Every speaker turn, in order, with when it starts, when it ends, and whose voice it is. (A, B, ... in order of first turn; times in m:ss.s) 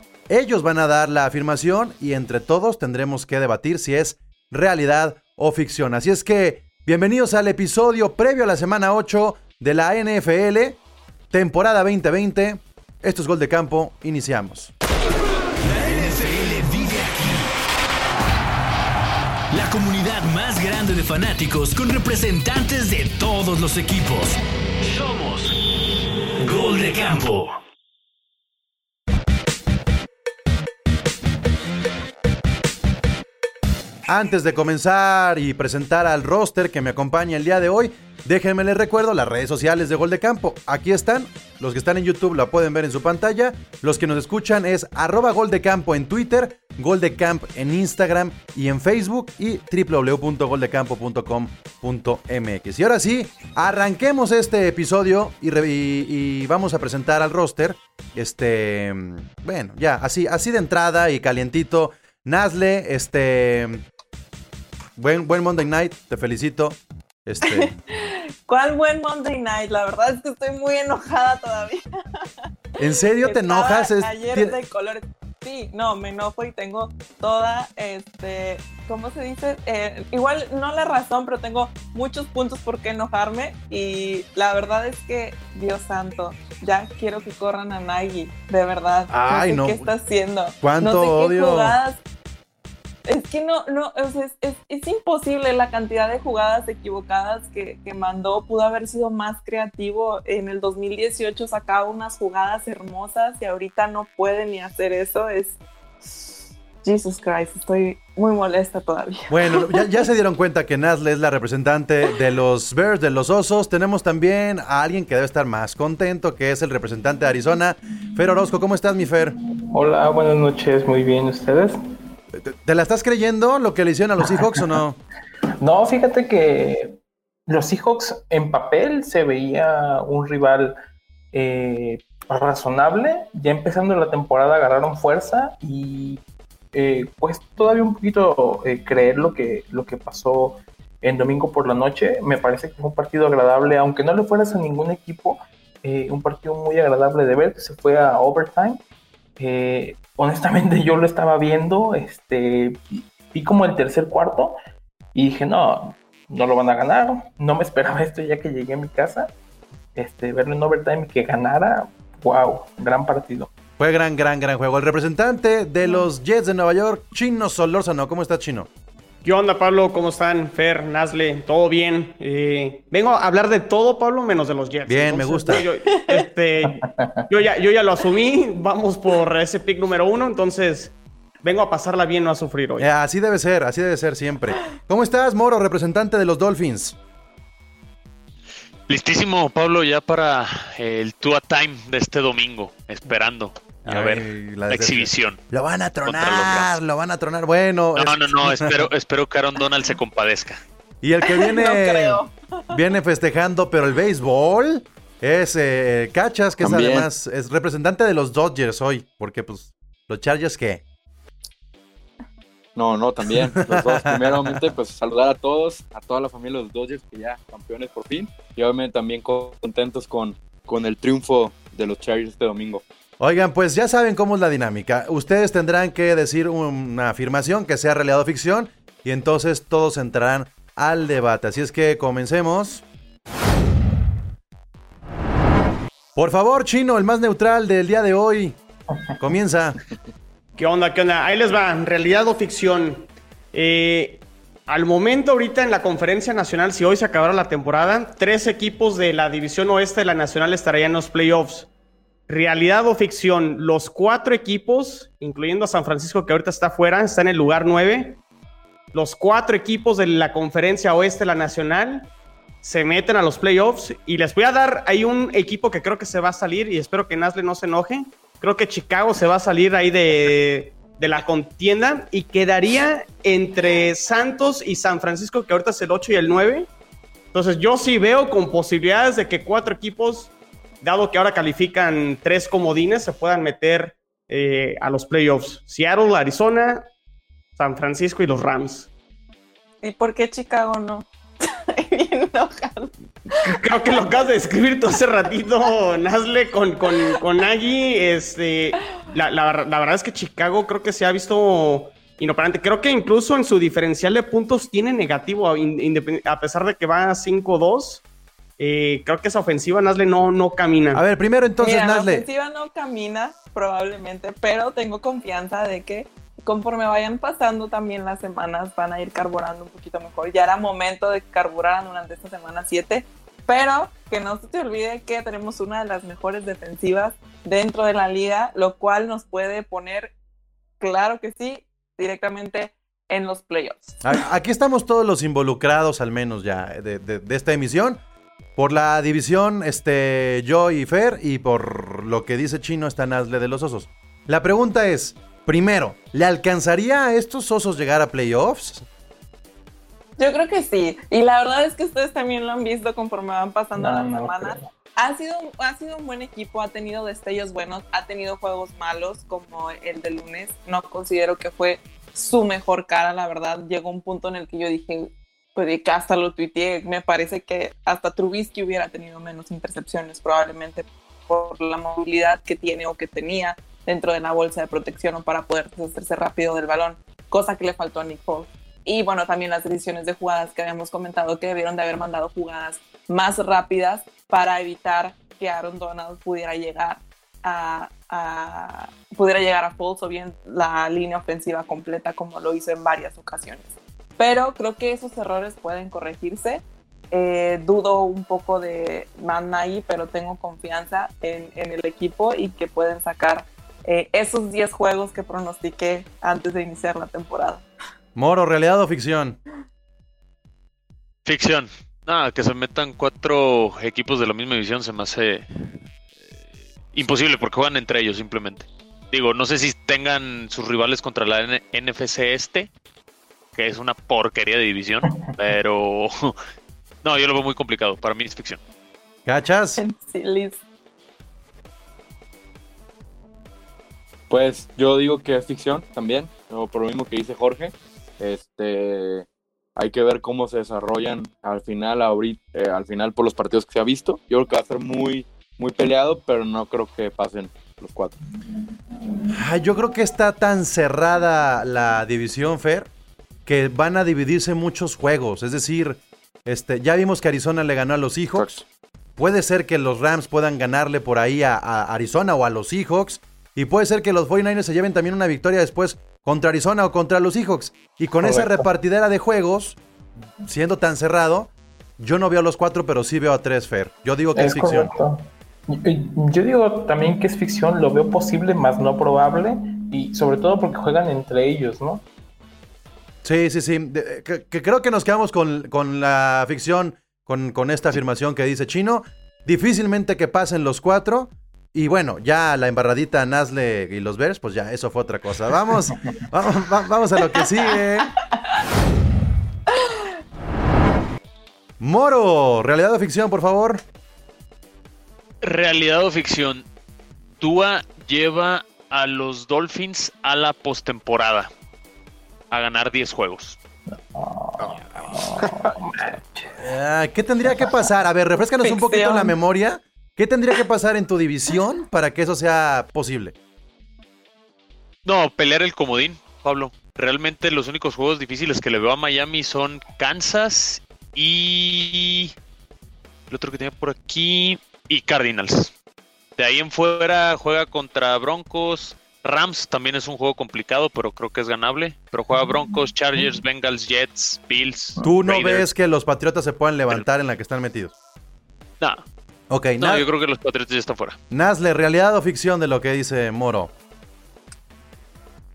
0:00.3-0:10.8 A
0:11.3-0:14.7 A
0:15.6-0:17.5 B
0:19.5-0:25.5 B
0:26.4-0:27.6 B
0:34.1-1:03.8 A
1:05.0-1:07.7 A
1:07.5-1:12.3 C
1:12.8-1:14.6 A
1:13.2-1:32.0 C
1:29.1-1:29.9 A
1:30.6-1:31.8 A
1:33.0-1:45.6 C
1:46.1-1:49.8 C
1:49.3-1:59.4 A
1:59.7-2:01.8 D
2:02.3-2:05.0 A
2:05.6-2:10.8 D
2:11.3-2:16.2 D
2:16.7-2:28.8 D
2:29.4-2:34.6 D
2:35.1-2:39.3 D
2:39.9-2:43.5 D
2:43.8-2:48.7 A
2:45.8-2:46.1 C
2:49.2-3:02.9 E
2:54.8-2:55.6 A
2:56.6-2:57.2 D
3:02.8-3:07.0 A
3:08.9-3:15.4 F
3:13.8-3:18.9 A
3:16.0-3:16.7 F
3:17.9-3:20.6 F
3:21.0-3:30.8 A
3:21.2-3:22.7 C
3:26.6-3:27.1 G
3:32.8-3:42.8 G
3:33.5-3:34.6 A
3:43.2-3:52.8 A
3:56.2-3:58.6 A
3:59.2-3:59.8 A
4:00.6-4:11.7 E
4:12.3-4:18.2 E
4:18.9-4:22.1 E
4:22.6-4:36.7 E
4:37.3-4:46.9 E
4:47.6-4:48.9 E
4:49.8-4:53.6 C
4:53.4-5:08.0 E
5:08.6-5:11.0 E
5:10.9-5:12.3 A
5:11.6-5:30.1 C
5:30.8-5:34.0 C
5:34.0-5:38.0 A
5:38.6-5:48.8 A
5:50.2-6:47.6 C
5:53.8-5:54.6 D
6:48.1-6:49.4 A
6:51.2-6:55.5 F
6:56.9-7:02.7 F
7:03.5-7:06.3 F
7:07.0-7:08.6 F
7:09.2-7:09.8 A
7:09.8-7:10.6 C
7:14.3-7:28.2 G
7:29.3-7:32.9 A
7:33.4-7:38.5 A
7:38.3-7:38.6 G
7:39.2-7:49.8 A
7:48.2-7:48.7 D
7:50.4-7:54.9 A
7:54.3-8:02.0 D
8:03.2-8:18.1 A
8:21.8-8:23.8 A
8:25.4-8:26.6 F
8:27.4-8:31.5 F
8:32.5-8:33.6 F
8:33.9-8:36.6 D
8:35.0-8:35.5 F
8:36.6-8:43.3 A
8:37.5-8:37.8 D
8:38.6-8:39.3 C
8:45.0-8:52.3 F
8:53.3-8:55.7 F
8:56.4-9:05.7 F
9:02.3-9:03.3 D
9:05.0-9:07.9 A
9:08.8-9:09.0 F
9:09.5-9:10.0 A
9:09.8-9:11.2 F
9:11.3-9:13.7 A